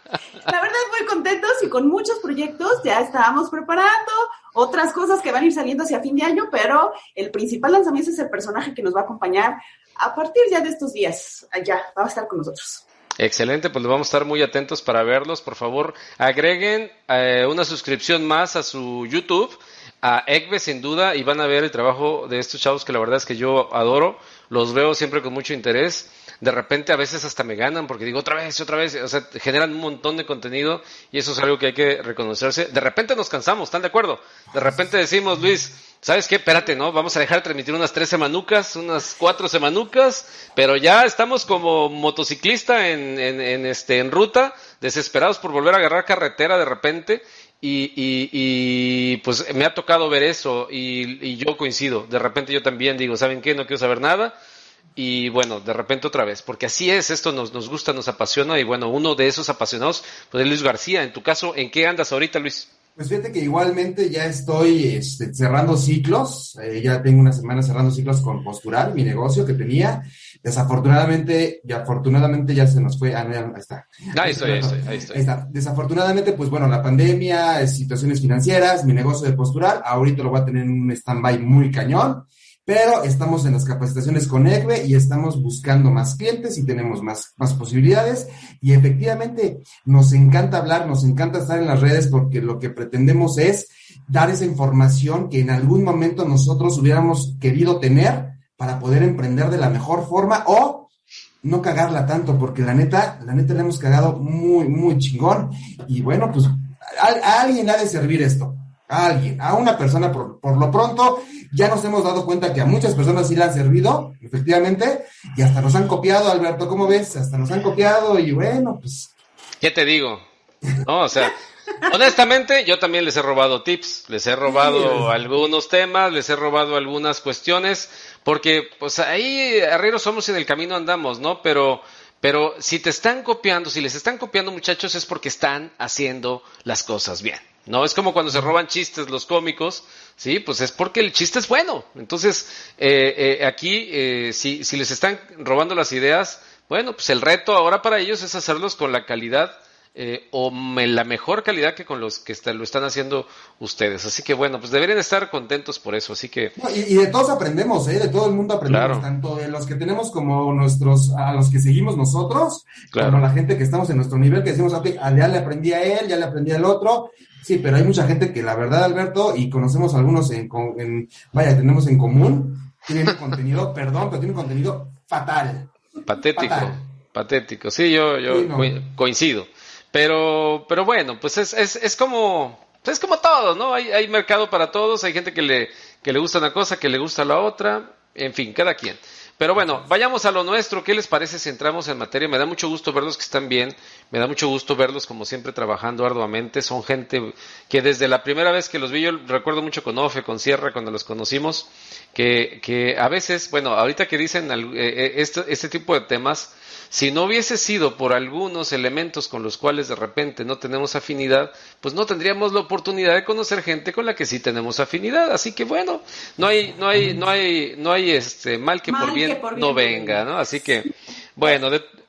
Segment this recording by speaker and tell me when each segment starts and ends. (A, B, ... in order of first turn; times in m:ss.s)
0:00.4-0:12.8 A
0:13.2-0:54.3 B
0:55.0-1:02.7 B
1:03.0-1:40.9 C
1:14.1-1:15.2 B
1:41.4-1:59.1 C
1:59.6-2:00.2 B
2:00.8-2:36.5 B
2:04.5-2:05.0 A
2:04.8-2:05.1 C
2:36.6-2:55.7 C
2:38.7-2:39.0 B
2:42.9-2:43.2 B
2:56.1-3:41.8 B
2:56.3-2:56.8 C
2:58.3-2:58.8 C
3:36.9-3:37.2 C
3:38.8-3:40.2 A